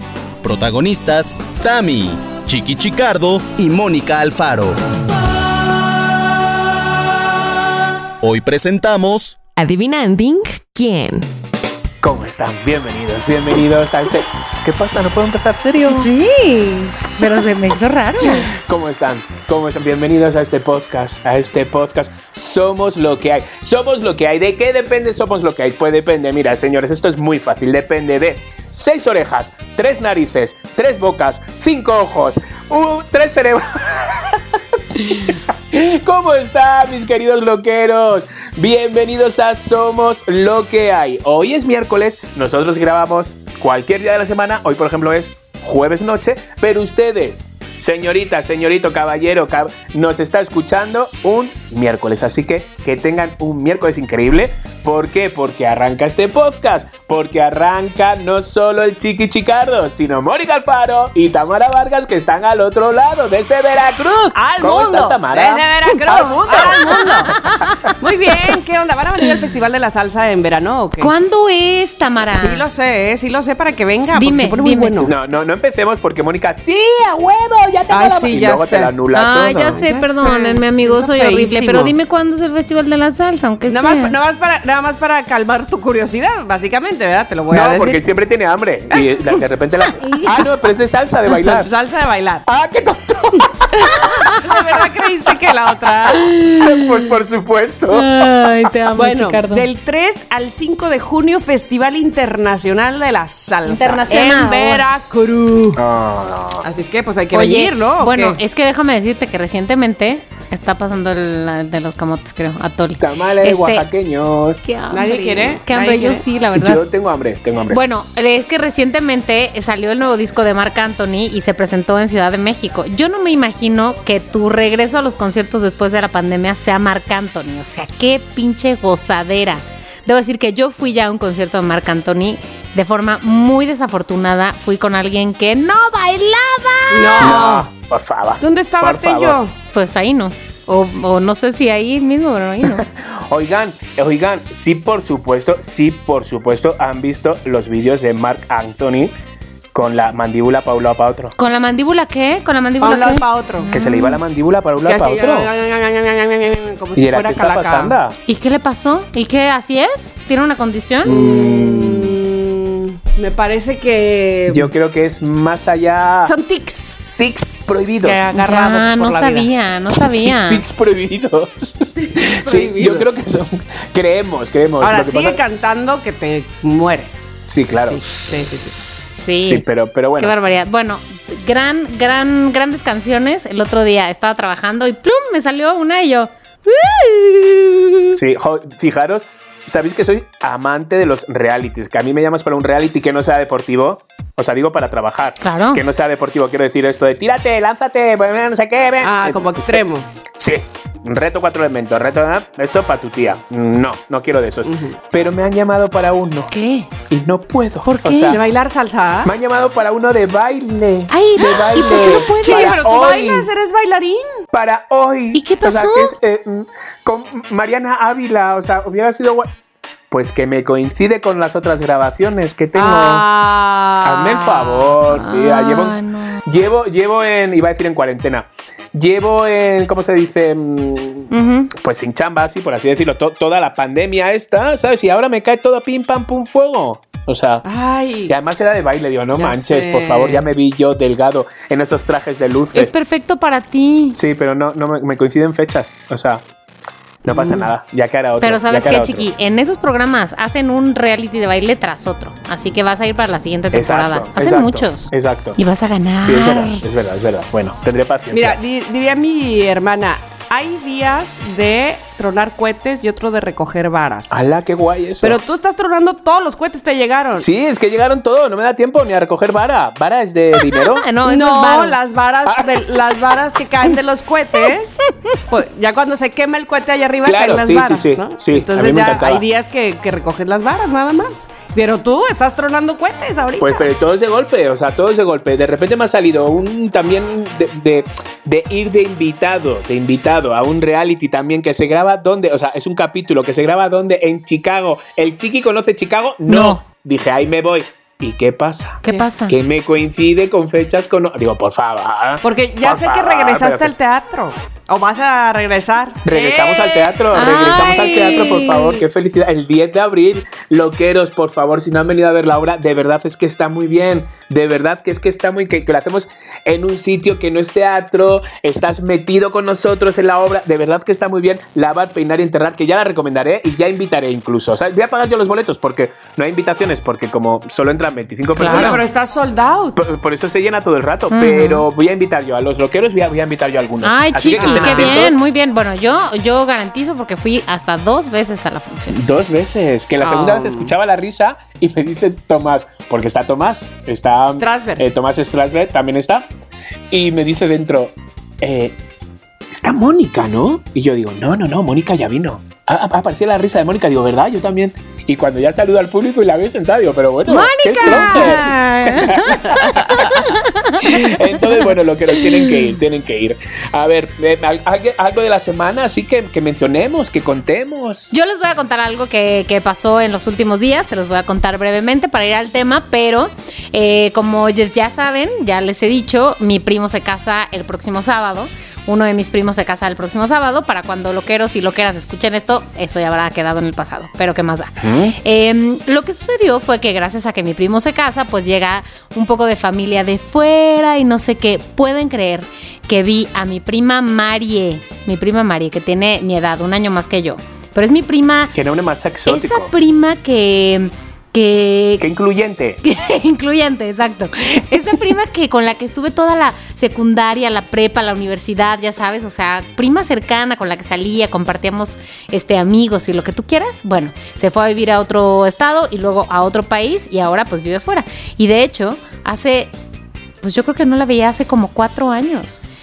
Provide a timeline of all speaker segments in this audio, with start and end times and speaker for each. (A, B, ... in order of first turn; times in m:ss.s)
0:00.4-0:04.8 A
0:08.2-0:09.4 A
0:09.6-0:11.3 B
0:12.0-0:16.1 C
0:15.9-0:18.5 D
0:18.5-0:34.4 C
0:34.9-1:07.2 C
1:04.4-1:07.4 B
1:07.0-1:07.9 D
1:08.0-1:11.1 B
1:11.0-1:12.6 D
1:12.3-1:15.1 B
1:14.1-1:15.0 D
1:15.0-1:19.8 C
1:17.9-1:19.0 B
1:19.1-1:24.2 D
1:19.7-1:22.0 B
1:23.7-1:28.0 B
1:27.5-1:31.7 C
1:28.9-1:29.4 B
1:30.0-1:30.3 D
1:31.3-1:32.5 B
1:32.5-1:38.1 C
1:33.7-1:36.3 B
1:37.9-1:39.7 D
1:39.0-1:45.8 B
1:43.7-1:44.8 D
1:45.8-1:46.7 C
1:46.6-1:48.4 B
1:47.3-1:53.9 D
1:53.0-1:54.6 C
1:54.6-1:56.8 D
1:54.9-1:56.2 B
1:56.6-1:57.8 C
1:57.7-2:17.4 D
2:16.9-2:17.7 B
2:17.2-2:19.4 C
2:18.4-2:19.5 B
2:19.7-2:22.8 D
2:22.6-2:29.1 C
2:29.7-2:31.3 C
2:31.4-2:34.2 D
2:32.8-2:33.7 B
2:33.7-2:35.5 C
2:34.8-2:38.0 B
2:37.0-2:38.2 C
2:38.3-2:41.1 D
2:41.0-2:42.2 C
2:41.0-2:44.7 B
2:44.5-2:46.3 C
2:46.2-2:47.2 B
2:47.2-2:48.3 C
2:48.0-2:49.5 B
2:48.3-2:50.6 D
2:50.1-2:55.4 C
2:52.0-2:53.1 B
2:54.8-2:58.8 B
2:57.5-2:58.0 C
2:59.2-2:59.6 D
2:59.4-3:00.4 C
3:00.2-3:08.2 D
3:08.1-3:19.8 C
3:15.4-3:15.8 D
3:19.0-3:20.1 B
3:20.3-3:26.5 C
3:24.6-3:25.0 B
3:26.5-3:26.9 D
3:27.1-3:28.4 C
3:27.8-3:28.4 D
3:28.3-3:29.3 B
3:29.2-3:33.5 C
3:31.1-3:32.9 D
3:31.7-3:34.3 B
3:34.5-3:39.5 C
3:35.3-3:36.1 D
3:40.1-3:43.3 C
3:42.8-3:44.9 B
3:44.0-3:57.6 C
3:45.1-3:46.4 D
3:51.3-3:51.7 D
3:57.6-3:58.4 B
3:58.3-4:02.9 C
3:59.4-4:00.4 B
4:02.7-4:04.2 D
4:04.2-4:06.4 C
4:07.2-4:09.3 C
4:07.3-4:07.7 B
4:08.4-4:16.8 D
4:13.7-4:15.6 C
4:16.2-4:18.6 C
4:18.3-4:24.4 B
4:24.3-4:25.4 C
4:25.2-4:27.5 B
4:27.4-4:31.1 C
4:31.0-4:32.0 D
4:31.2-4:43.9 B
4:32.5-4:32.9 C
4:37.2-4:39.4 C
4:43.6-5:04.0 C
4:56.5-4:56.8 D
4:59.0-4:59.6 D
5:02.4-5:07.2 B
5:06.2-5:29.0 C
5:07.3-5:09.0 D
5:28.6-5:29.0 D
5:28.6-5:30.0 B
5:30.0-5:35.4 C
5:31.3-5:31.9 D
5:34.0-5:39.3 D
5:34.6-5:35.3 B
5:39.1-5:46.5 C
5:40.2-5:40.9 B
5:44.5-5:45.0 B
5:47.1-5:49.0 C
5:49.7-6:00.4 C
5:57.5-5:59.4 D
5:58.0-6:00.0 B
6:00.0-6:01.3 D
6:01.0-6:08.3 C
6:08.3-6:38.7 D
6:25.0-6:25.4 C
6:38.7-6:39.9 C
6:39.5-6:42.3 D
6:42.2-6:43.0 C
6:43.0-6:59.9 D
7:00.6-7:02.8 D